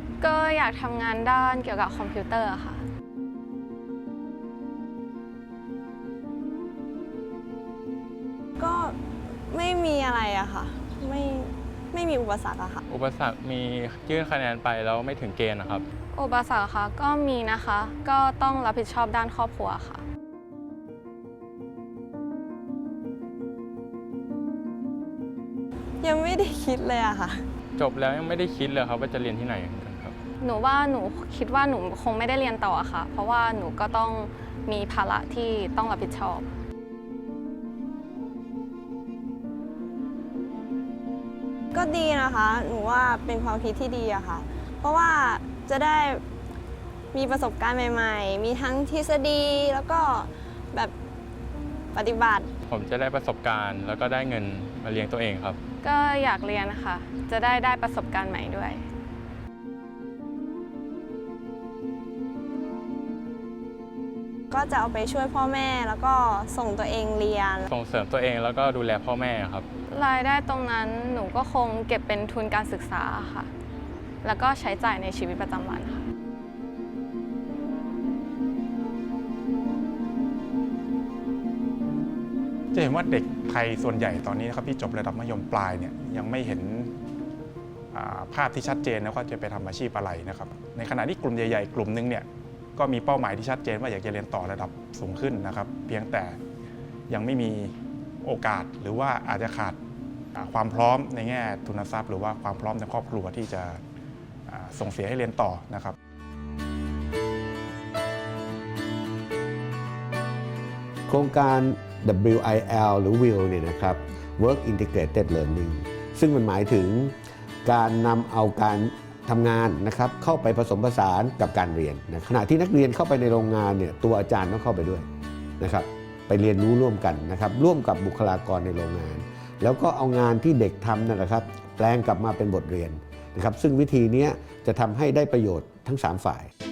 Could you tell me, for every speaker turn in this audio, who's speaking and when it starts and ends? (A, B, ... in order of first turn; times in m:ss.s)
0:00.2-0:02.8 A
0:08.6-0:09.0 B
0:09.5-0:12.8 B
0:12.9-0:15.8 C
0:16.1-0:20.0 A
0:26.0-0:27.4 B
0:27.8-0:30.2 C
0:30.4-0:36.5 A
0:41.7-0:46.2 B
0:47.1-0:50.9 B
0:51.9-0:52.5 B
0:52.7-0:55.6 C
0:55.8-0:58.8 A
1:04.5-1:07.6 B
1:07.7-1:09.7 C
1:09.9-1:13.5 A
1:14.2-1:16.0 A
1:22.7-1:26.9 D
1:27.9-1:32.2 D
1:32.8-1:36.4 D
1:37.1-1:39.8 D
1:40.4-1:43.8 D
1:44.5-1:46.0 D
1:51.1-1:57.1 E
1:57.6-2:05.0 E
2:05.6-2:16.5 E